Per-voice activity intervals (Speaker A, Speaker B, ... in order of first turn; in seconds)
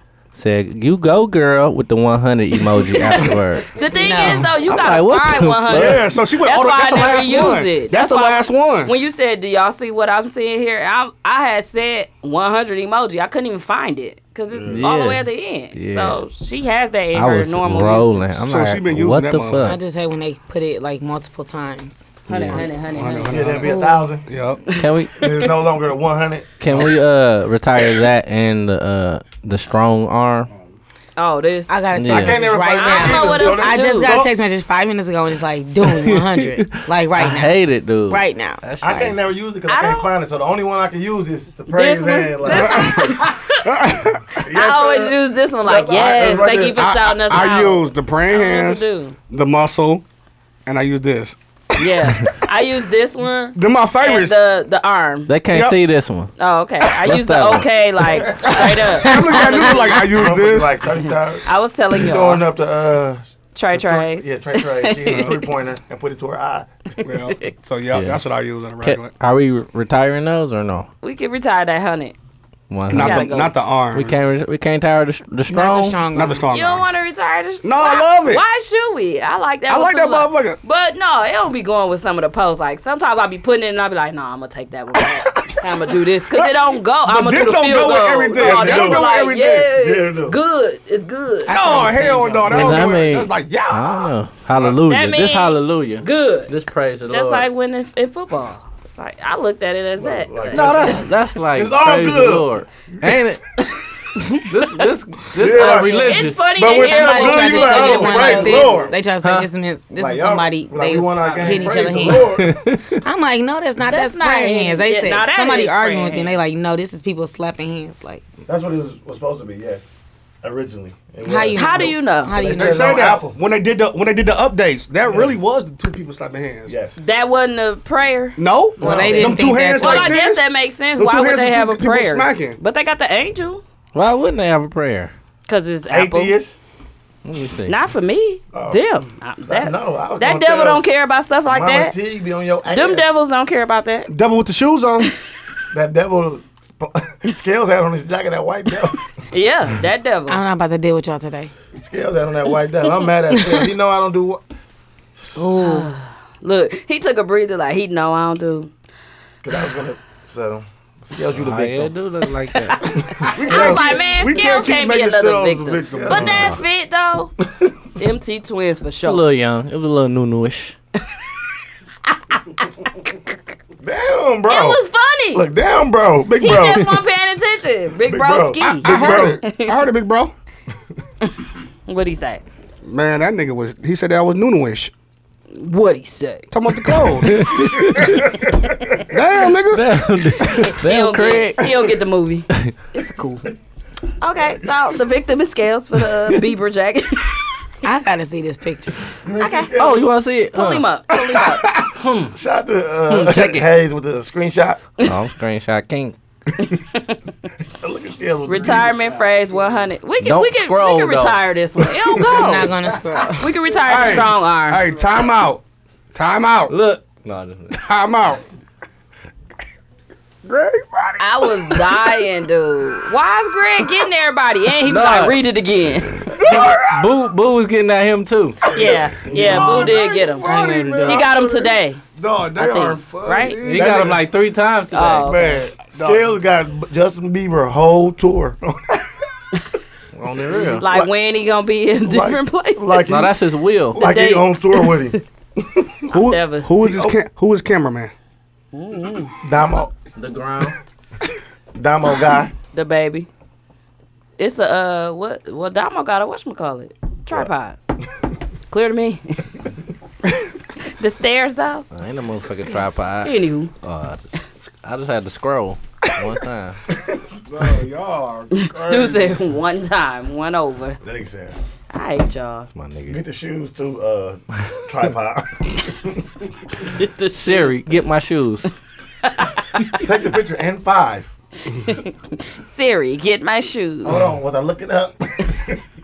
Speaker A: 0.3-3.7, 4.2-6.0, 14.7-16.2, 17.1-19.8, 22.3-22.6, 24.7-25.2, 26.6-30.5, 31.9-32.4, 35.8-39.2, 55.3-56.3, 57.0-57.7, 67.9-68.2, 68.8-70.9, 72.7-73.3, 73.9-76.0, 92.5-97.5, 100.5-103.5, 104.4-106.6, 109.2-109.5, 112.2-113.0, 133.9-135.1, 137.2-137.7, 161.3-163.2, 169.0-170.8, 187.3-188.2, 189.7-191.7, 199.8-200.8, 201.9-202.3, 203.1-203.7, 205.0-206.2, 210.2-211.4, 216.7-217.7, 224.8-225.4, 226.4-228.6, 233.6-235.3, 240.1-240.8, 243.1-244.0, 250.2-250.8, 261.9-266.8, 272.7-273.2, 277.0-278.8
Speaker B: 2.9-18.4, 22.3-23.4, 24.8-25.2, 31.2-31.8, 32.7-34.2, 39.7-40.1, 41.7-43.6, 44.4-49.1, 51.8-55.3, 56.4-60.1, 61.4-62.5, 63.5-65.5, 67.0-67.3, 71.0-72.2, 72.9-73.5, 76.5-92.7, 94.8-96.5, 97.1-101.0, 105.5-108.9, 113.8-116.3, 121.5-122.4, 127.0-133.6, 135.5-136.4, 137.7-141.9, 142.7-144.1, 149.3-150.4, 155.6-158.7, 162.5-167.3, 168.0-169.2, 172.1-172.9, 174.5-175.4, 176.4-179.8, 181.8-182.4, 185.5-186.5, 187.0-188.8, 190.4-193.5, 194.2-197.5, 199.4-201.7, 206.6-207.2, 208.4-212.7, 213.4-214.9, 221.2-226.3, 228.7-232.0, 232.6-233.6, 234.9-235.7, 240.8-243.0, 244.0-244.9, 246.1-246.7, 248.7-249.3, 252.7-253.3, 254.4-257.8, 258.7-259.5, 260.9-261.9, 262.7-263.7, 268.5-271.0, 271.9-272.7, 277.3-278.0, 279.2-280.0, 281.7-284.2
Speaker C: 3.8-4.7, 19.6-22.1, 23.6-24.1, 31.7-39.1, 75.5-76.5, 91.5-92.5, 106.6-112.3, 113.0-118.2, 121.2-123.2, 128.8-130.1, 150.3-151.5, 155.3-155.9, 197.8-199.0, 212.2-213.6, 230.4-231.2
Speaker D: 5.7-8.9, 18.5-19.8, 22.9-24.6, 42.5-44.2, 46.5-50.0, 50.6-51.9, 53.5-54.4, 55.5-55.8, 58.2-60.8, 67.0-69.1, 72.9-74.2, 76.1-76.9, 77.6-78.4, 79.7-80.6, 86.3-89.7, 91.5-94.1, 122.5-126.7, 128.4-132.6, 144.1-145.1, 163.0-166.5, 178.6-180.3, 182.8-184.9, 186.5-187.5, 189.1-189.9, 213.8-215.6, 216.1-216.8, 217.7-218.4, 220.4-222.1, 226.4-227.0, 228.7-234.2, 235.2-236.4, 246.1-248.1, 267.5-269.1
Speaker E: 14.5-14.8, 23.3-24.3, 25.2-26.8, 32.1-34.3, 38.8-43.1, 44.4-46.8, 60.1-66.7, 88.3-89.1, 89.7-90.4, 100.0-102.5, 105.4-108.9, 110.0-112.5, 118.5-119.9, 120.4-123.4, 125.1-125.4, 126.7-127.0, 128.8-129.2, 135.9-136.6, 138.5-138.8, 139.4-140.8, 141.5-143.1, 145.7-149.0, 151.7-154.4, 159.4-161.9, 163.2-164.8, 165.8-166.6, 167.4-167.7, 173.8-174.8, 175.3-177.0, 178.1-179.4, 188.4-189.0, 194.4-194.7, 199.2-200.1, 202.3-204.8, 207.7-209.1, 228.8-229.9, 233.7-234.2, 235.9-238.8, 242.0-243.3, 243.9-246.1, 246.8-247.2, 249.4-249.9, 251.7-252.5, 266.9-267.8, 268.7-269.4, 271.0-271.6, 273.1-276.2, 279.9-281.3, 284.0-285.8